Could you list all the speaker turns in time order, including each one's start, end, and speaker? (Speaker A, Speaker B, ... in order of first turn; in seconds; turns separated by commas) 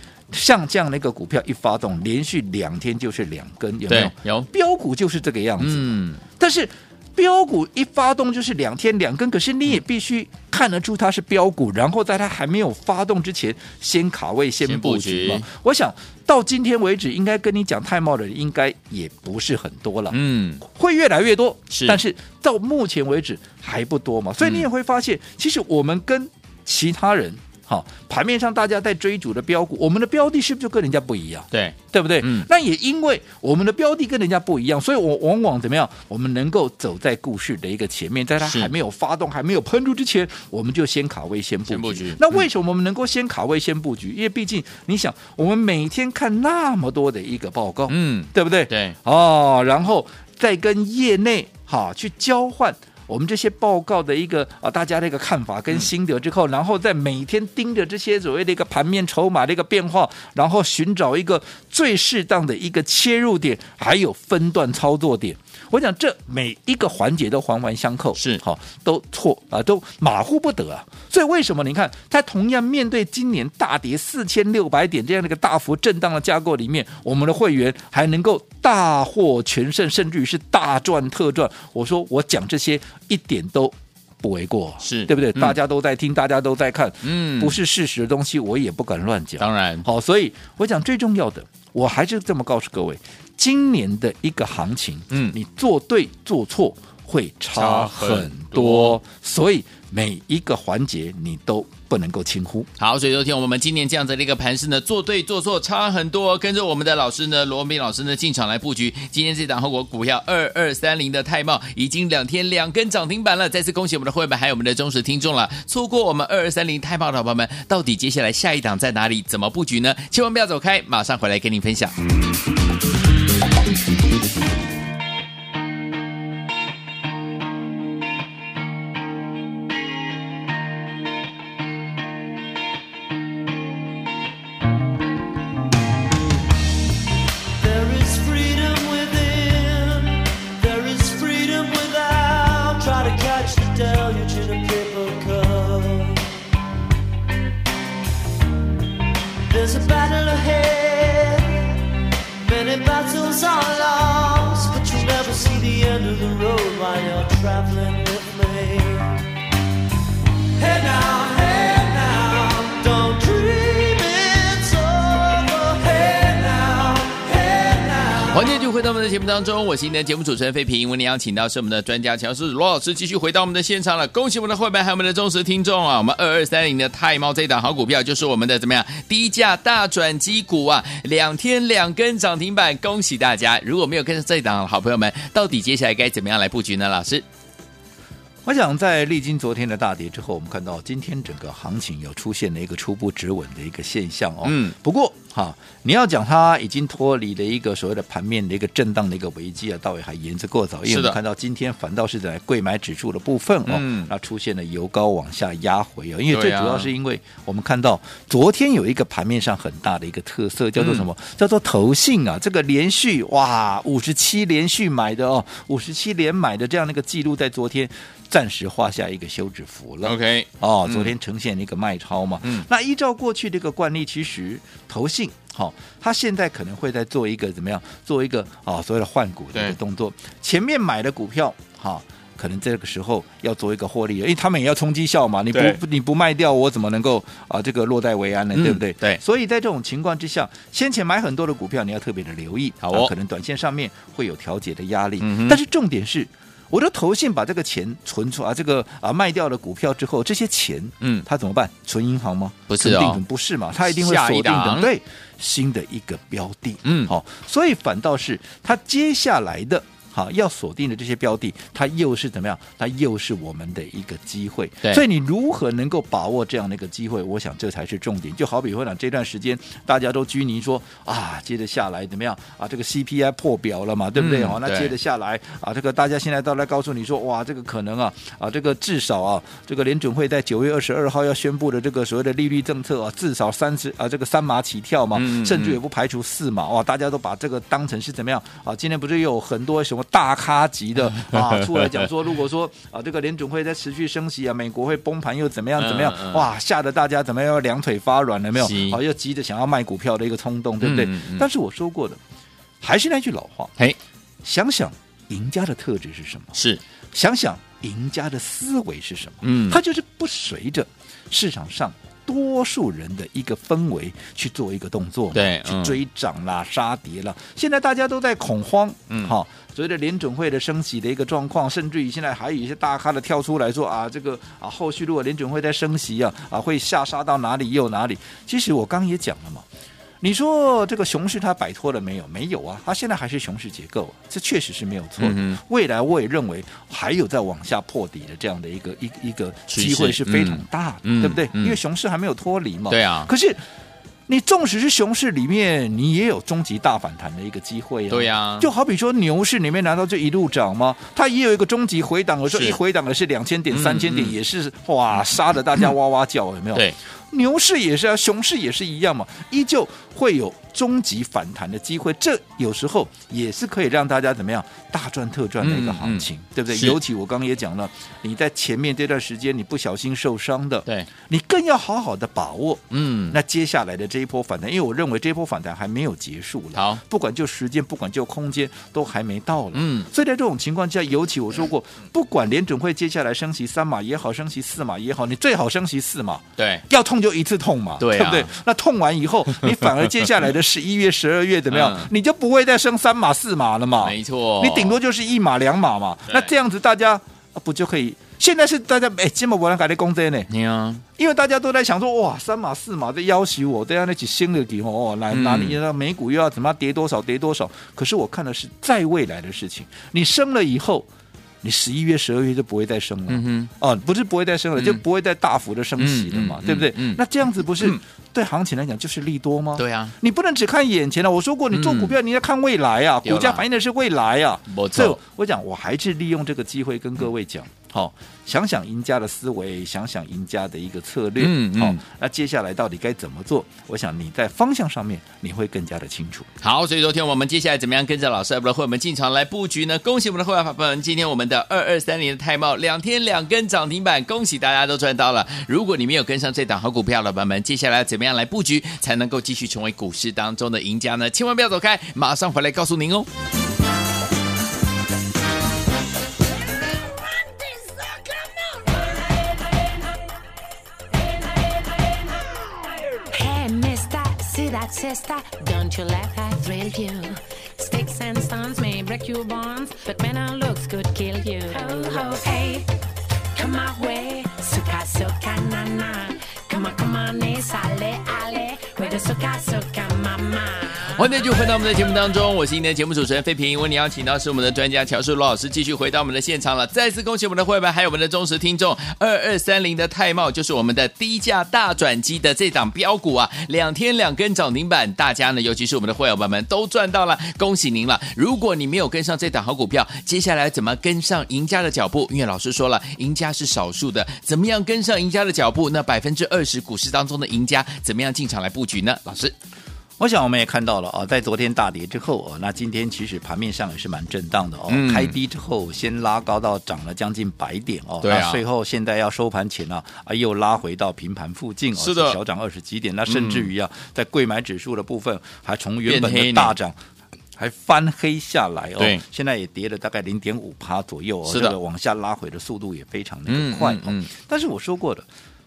Speaker A: 0.3-102.7, Speaker B: 3.9-4.5, Speaker B: 5.6-6.2, Speaker B: 14.6-15.5, Speaker B: 20.1-20.6, Speaker B: 21.7-22.0, Speaker B: 24.4-24.6, Speaker B: 31.5-32.5, Speaker B: 38.4-38.7, Speaker B: 41.7-42.4, Speaker B: 47.9-49.0, Speaker B: 68.2-68.4, Speaker B: 84.8-85.6, Speaker B: 87.0-87.6, Speaker B: 89.4-89.8, Speaker B: 95.1-95.3, Speaker B: 97.5-99.0, Speaker B: 102.8-122.0, Speaker C: 137.6-146.3, Speaker C: 149.5-159.3, Speaker C: 160.6-168.4, Speaker B: 168.3-187.2, Speaker A: 188.4-302.2, Speaker B: 194.4-194.7, Speaker B: 200.8-201.2, Speaker B: 203.7-204.1, Speaker B: 206.3-206.9, Speaker B: 210.8-211.1, Speaker B: 220.0-221.1, Speaker B: 235.5-235.8, Speaker B: 238.5-239.2, Speaker B: 242.8-243.1, Speaker B: 245.2-245.6, Speaker B: 252.7-253.2, Speaker B: 253.8-254.9, Speaker B: 256.8-257.1, Speaker B: 274.1-274.9, Speaker B: 285.1-285.8, Speaker B: 291.1-292.1, Speaker B: 295.8-296.4, Speaker B: 298.6-299.0, Speaker B: 300.8-301.5, Speaker A: 302.8-303.7, Speaker A: 304.4-306.6, Speaker B: 306.5-306.8, Speaker A: 307.1-329.6, Speaker B: 309.4-309.8, Speaker B: 315.3-316.0, Speaker A: 330.2-343.6, Speaker B: 335.2-335.6, Speaker B: 339.7-341.8, Speaker B: 342.9-343.3, Speaker A: 344.3-400.5, Speaker B: 348.1-348.7, Speaker B: 352.5-352.8, Speaker B: 353.7-354.3, Speaker B: 365.6-367.0, Speaker B: 372.9-373.4, Speaker B: 376.7-377.0, Speaker B: 379.7-380.1, Speaker B: 386.6-386.8, Speaker B: 388.0-388.5, Speaker B: 389.6-390.3, Speaker B: 391.7-392.1, Speaker B: 394.0-394.9, Speaker B: 400.5-401.0, Speaker A: 401.2-411.1, Speaker B: 405.3-405.8, Speaker A: 411.6-436.5, Speaker B: 413.3-413.7, Speaker B: 416.0-417.2, Speaker B: 419.8-420.1, Speaker B: 421.7-422.2, Speaker B: 423.2-423.6, Speaker B: 424.7-425.2, Speaker B: 431.4-432.0, Speaker B: 436.6-453.3, Speaker D: 463.3-472.9, Speaker D: 473.5-481.2, Speaker B: 481.1-509.5, Speaker A: 510.2-527.0, Speaker B: 514.9-515.3, Speaker B: 518.2-518.6, Speaker B: 522.0-522.4, Speaker B: 523.3-523.7, Speaker B: 526.1-526.7, Speaker A: 527.6-535.2, Speaker B: 529.0-529.2, Speaker B: 531.5-531.7, Speaker B: 533.5-534.3